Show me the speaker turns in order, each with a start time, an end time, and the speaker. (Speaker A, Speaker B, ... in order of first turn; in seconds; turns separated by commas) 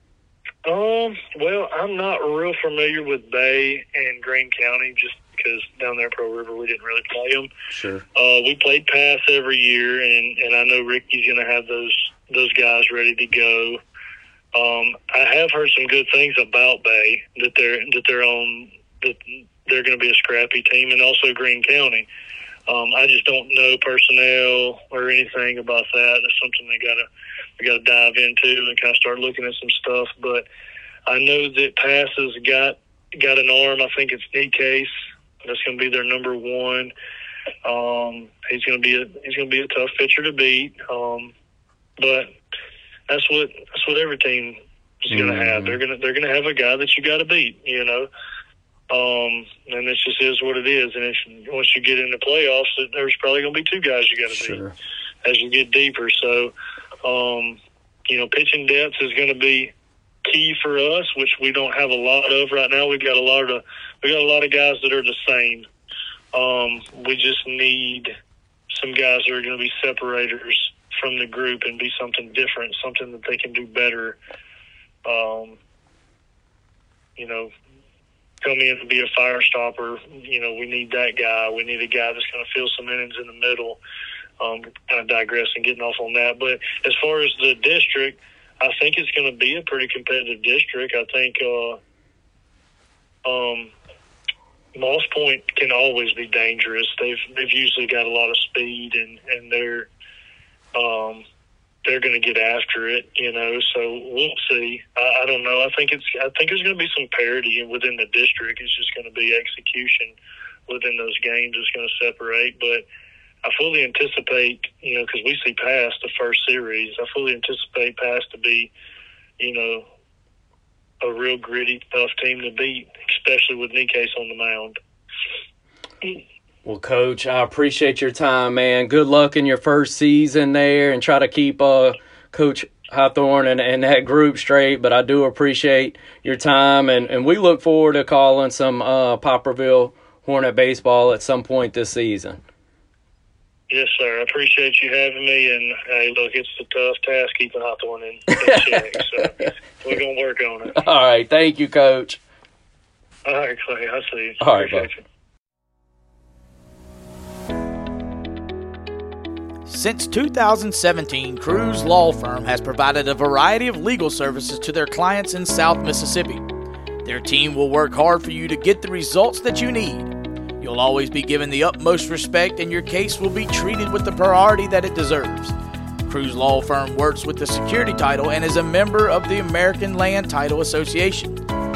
Speaker A: 0.7-7.5, Speaker B: 7.7-8.1, Speaker A: 8.2-13.8, Speaker A: 14.5-22.1, Speaker A: 22.7-27.1, Speaker A: 27.6-30.5, Speaker A: 31.1-34.9, Speaker A: 35.4-36.9, Speaker A: 37.6-41.3, Speaker A: 42.0-42.3, Speaker A: 43.1-48.1, Speaker B: 45.1-45.8, Speaker A: 48.9-54.6, Speaker B: 54.3-54.8, Speaker A: 55.2-56.5, Speaker A: 57.0-59.7, Speaker A: 60.2-65.7, Speaker A: 66.3-68.1, Speaker A: 68.7-74.2, Speaker A: 75.0-75.6, Speaker A: 77.2-77.5, Speaker A: 78.4-83.8, Speaker A: 84.4-91.8, Speaker A: 93.2-93.7, Speaker A: 94.8-99.9, Speaker A: 100.8-101.2, Speaker A: 101.8-110.2, Speaker A: 110.7-112.8, Speaker A: 113.4-118.7, Speaker A: 119.4-119.9, Speaker A: 121.0-124.8, Speaker B: 126.7-142.4, Speaker A: 143.7-150.8, Speaker B: 150.8-152.2, Speaker A: 153.3-155.0, Speaker B: 154.4-154.9, Speaker C: 159.7-166.5, Speaker C: 167.0-175.5, Speaker C: 176.1-181.4